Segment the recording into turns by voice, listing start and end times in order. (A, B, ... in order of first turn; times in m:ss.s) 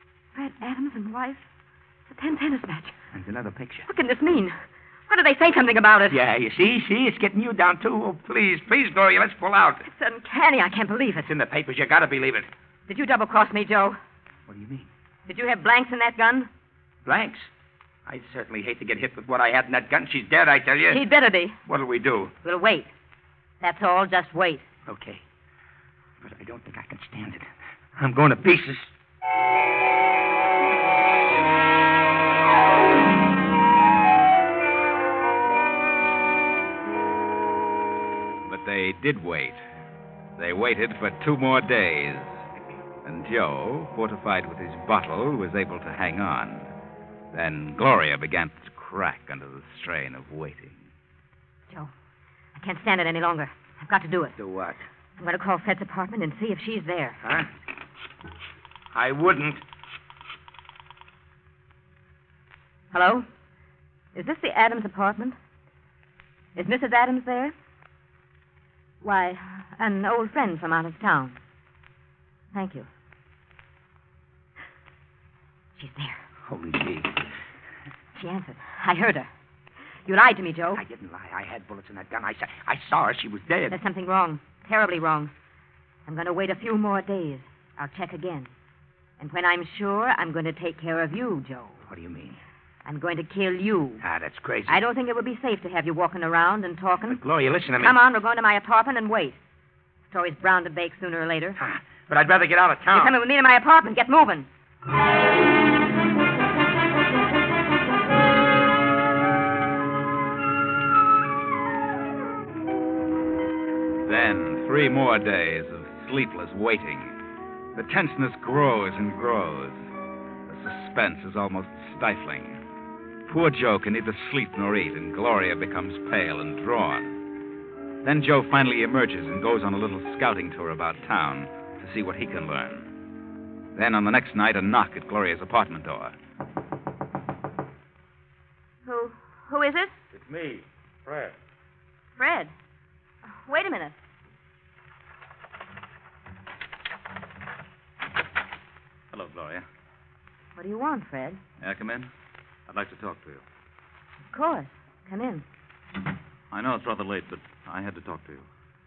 0:00.4-0:01.4 A
0:02.1-0:03.0 A
0:03.1-0:03.9 B
0:03.9-0:04.6 A
0:05.1-0:06.2 A
0:06.1-0:09.9 B
0:09.8-0:11.3 A
0:11.2-0:12.5 B
0:12.9-0:14.0 A
0:14.5-0:14.9 B
0:15.3-0:16.5 A
0:17.0-0:17.5 B
0:18.1-0:21.0 B
0:20.9-0:21.6 A
0:21.6-0:22.3 B
0:22.4-0:22.9 A
0:23.6-0:24.7 A
0:24.9-0:25.2 B
0:26.2-0:28.9 B
0:38.4-0:39.6 C
0:40.4-0:42.4 C
0:43.0-0:46.7 C
0:47.3-0:50.8 C
0:52.6-0:54.4 A
0:54.4-0:54.8 B
0:55.2-0:57.2 A
0:57.2-0:57.5 B
0:58.9-0:59.6 B
1:02.9-1:03.3 A
1:04.2-1:05.4 A
1:06.6-1:07.6 A
1:09.0-1:11.4 A
1:12.5-1:12.9 A
1:15.8-1:16.2 A
1:16.4-1:17.3 B
1:18.2-1:19.3 A
1:20.1-1:20.8 A
1:20.8-1:23.8 B
1:23.7-1:25.3 A
1:26.1-1:28.5 A
1:29.2-1:31.8 A
1:31.9-1:32.4 B
1:32.8-1:34.0 A
1:34.0-1:34.8 B
1:34.7-1:37.2 A
1:37.1-1:38.0 B
1:37.8-1:39.4 A
1:40.1-1:41.6 A
1:41.6-1:43.2 B
1:42.9-1:44.5 A
1:54.0-1:57.2 C
1:57.8-1:59.8 C
2:00.5-2:02.6 C
2:03.3-2:07.2 C
2:08.0-2:12.9 C
2:13.8-2:16.2 C
2:18.8-2:20.0 A
2:20.1-2:21.3 D
2:22.2-2:22.5 A
2:23.3-2:24.0 A
2:29.1-2:29.7 D
2:30.6-2:31.4 A
2:31.6-2:32.1 D
2:32.7-2:33.4 D
2:34.3-2:35.4 A
2:36.5-2:38.5 D